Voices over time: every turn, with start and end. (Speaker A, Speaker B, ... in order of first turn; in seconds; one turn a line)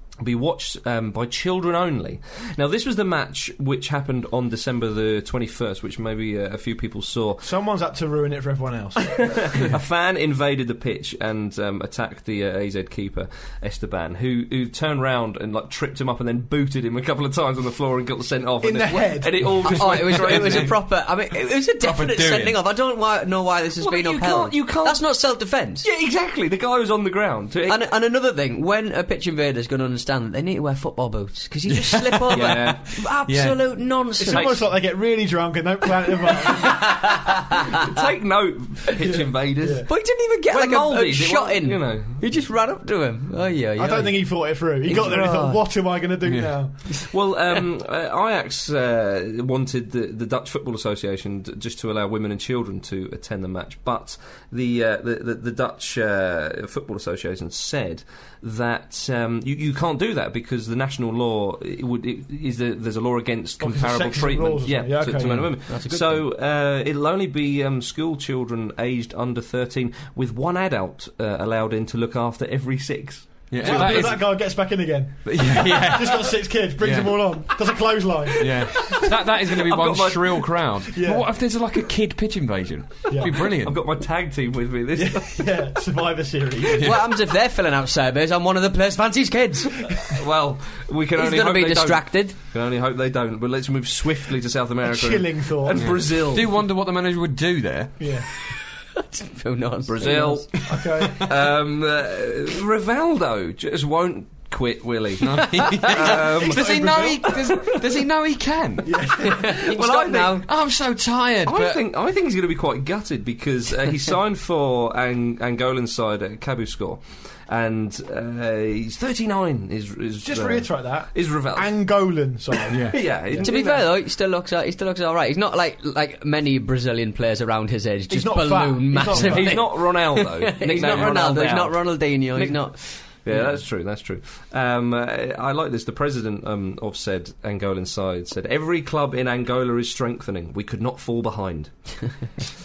Speaker A: 0.2-7.5
Speaker B: 7.4-9.7
Speaker A: 9.1-20.7
Speaker B: 18.6-19.5
Speaker C: 19.6-25.9
Speaker D: 19.9-20.7
Speaker D: 21.8-22.6
Speaker A: 23.8-27.8
Speaker C: 27.7-34.6
Speaker D: 31.7-33.9
Speaker A: 32.3-33.0
Speaker B: 34.2-37.2
Speaker A: 34.3-34.6
Speaker C: 36.5-37.5
Speaker A: 37.9-42.2
Speaker B: 39.0-39.9
Speaker C: 39.9-45.6
Speaker B: 43.8-46.9
Speaker D: 46.2-46.6
Speaker A: 47.1-74.2
Speaker B: 63.6-65.9
Speaker D: 65.2-65.5
Speaker C: 65.7-66.3
Speaker D: 73.5-74.7
Speaker B: 73.6-79.0
Speaker D: 75.2-77.5
Speaker D: 78.4-83.8
Speaker A: 79.0-80.7
Speaker B: 80.9-81.3
Speaker B: 83.1-83.5
Speaker A: 83.2-85.6
Speaker B: 85.0-86.9
Speaker C: 86.8-89.9
Speaker A: 90.1-96.5
Speaker C: 91.2-92.3
Speaker B: 94.8-96.0
Speaker D: 95.7-98.3
Speaker B: 98.0-98.3
Speaker C: 99.1-100.5
Speaker A: 99.9-107.8
Speaker B: 100.7-101.3
Speaker D: 105.2-109.2
Speaker B: 106.4-107.4
Speaker B: 108.8-109.6
Speaker C: 109.2-110.5
Speaker A: 109.7-110.4
Speaker D: 110.2-111.8
Speaker A: 111.5-121.8
Speaker B: 120.2-123.8
Speaker A: 122.7-123.8
Speaker D: 122.7-123.0
Speaker C: 123.4-133.5
Speaker B: 128.1-129.7
Speaker A: 129.1-142.4